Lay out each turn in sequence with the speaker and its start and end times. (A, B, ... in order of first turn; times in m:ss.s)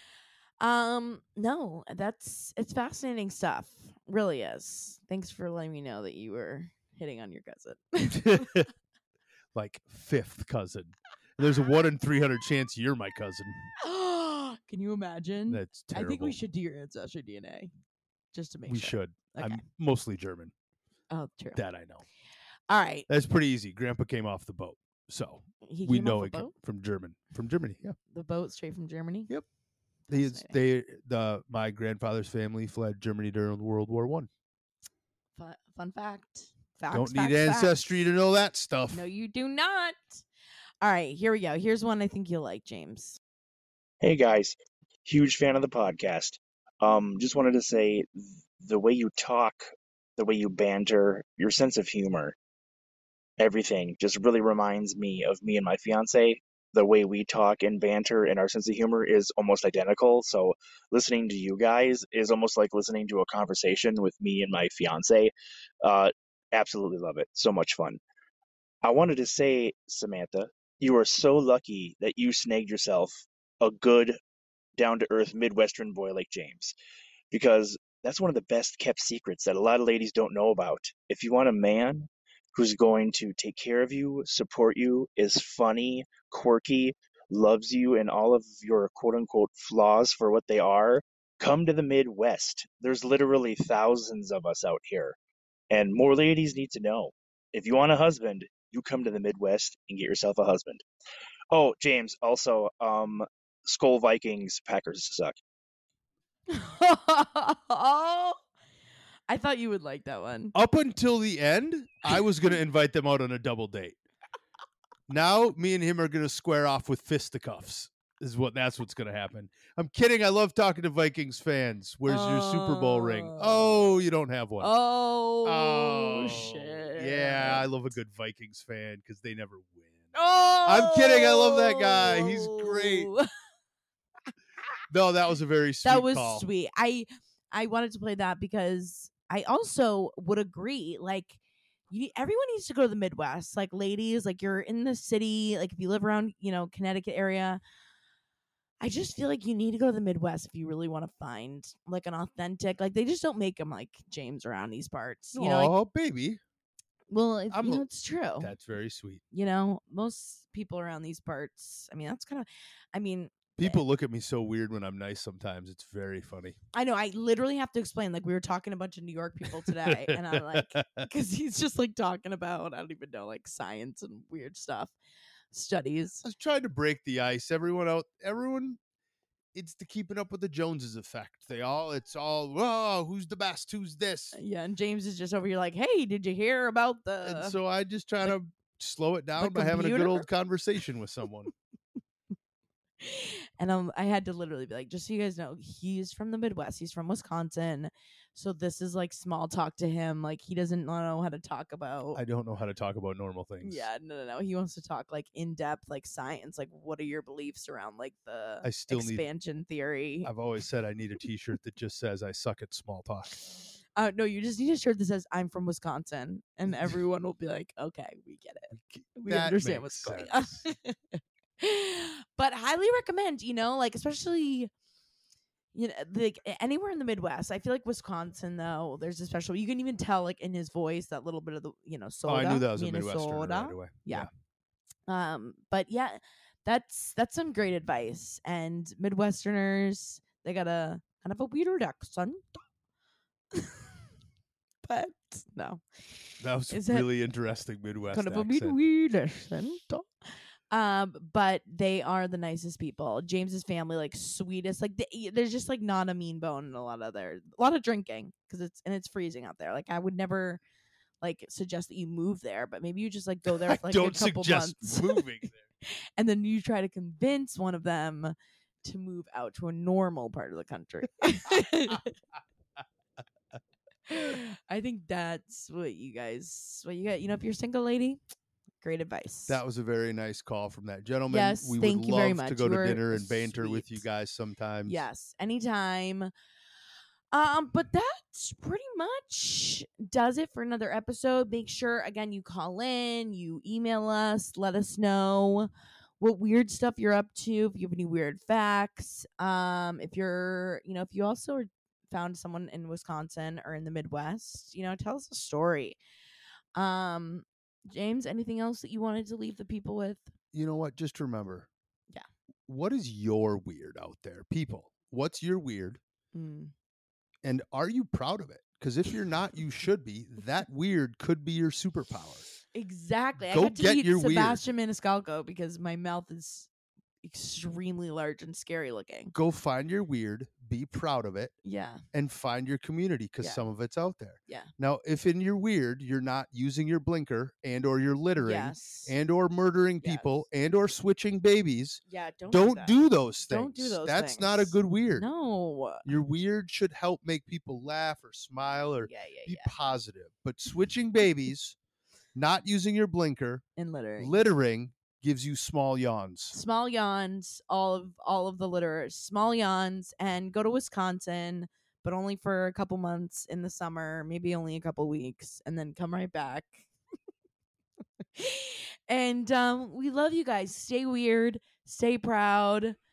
0:00.6-0:08.7 A
0:08.1-0:08.7 B
0:09.5-0:13.7 B
0:13.8-0:17.7 A
0:15.5-0:16.4 B
0:18.3-0:19.6 A
0:18.7-0:20.5 B
0:21.1-0:21.6 A
0:21.6-0:22.0 B
0:22.7-0:23.1 A
0:23.1-0:28.0 B
0:25.6-0:26.5 A
0:28.1-0:29.3 A
0:30.1-0:30.6 A
0:30.1-0:34.3 B
0:35.4-0:38.0 A
0:36.9-0:39.1 B
0:38.9-0:40.2 A
0:40.8-0:43.2 A
0:44.0-0:52.4 C
0:53.4-1:08.0 C
1:08.8-1:14.2 C
1:14.8-1:16.7 C
1:17.3-1:35.2 C
1:35.7-1:40.8 C
1:41.5-1:45.4 C
1:46.5-1:48.4 A
1:49.3-1:50.6 A
1:50.5-1:54.0 B
1:55.1-2:04.7 B
2:02.1-2:03.8 A
2:04.6-2:07.7 A
2:05.4-2:10.1 B
2:10.1-2:13.3 A
2:10.6-2:13.1 B
2:14.9-2:16.5 B
2:15.8-2:21.4 A
2:21.9-2:27.6 A
2:28.8-2:35.7 A
2:35.4-2:36.4 B
2:37.1-2:38.5 A
2:37.5-2:37.9 B
2:38.4-2:39.2 B
2:39.3-2:43.8 A
2:43.6-2:46.6 B
2:46.7-2:55.0 A
2:49.6-2:51.1 B
2:55.5-2:56.2 A
2:56.2-2:58.8 B
2:59.5-3:04.4 B
3:04.3-3:07.6 A
3:07.2-3:11.5 B
3:09.4-3:10.3 A
3:13.0-3:22.2 A
3:22.2-3:23.9 B
3:23.6-3:30.3 A
3:28.6-3:29.2 B
3:30.2-3:33.4 B
3:34.0-3:44.7 A
3:38.7-3:40.7 B
3:45.7-3:54.3 A
3:52.3-3:54.3 B
3:55.1-4:02.6 A
4:03.5-4:04.0 A
4:04.8-4:07.1 A
4:06.4-4:08.8 B
4:08.1-4:20.6 A
4:21.2-4:25.2 A
4:23.5-4:25.6 B
4:25.8-4:32.1 A
4:34.1-4:38.2 A
4:38.8-4:39.6 A
4:39.5-4:45.0 B
4:41.3-4:44.0 A
4:44.9-4:46.3 A
4:47.3-5:06.0 A
5:06.8-5:10.3 A
5:10.5-5:11.7 B
5:12.7-5:16.0 B
5:16.3-5:16.7 A
5:17.4-5:22.4 B
5:22.7-5:26.7 A
5:23.5-5:24.6 B
5:27.2-5:29.3 A
5:29.3-5:31.5 B
5:31.6-5:32.0 A
5:32.1-5:45.3 B
5:38.4-5:39.2 A
5:40.0-5:40.4 A
5:42.1-5:46.1 A
5:46.0-5:51.8 B
5:49.0-5:49.7 A
5:52.4-5:53.6 B
5:53.8-5:54.4 A
5:54.2-5:56.6 B
5:56.5-6:06.9 A
6:08.4-6:13.0 A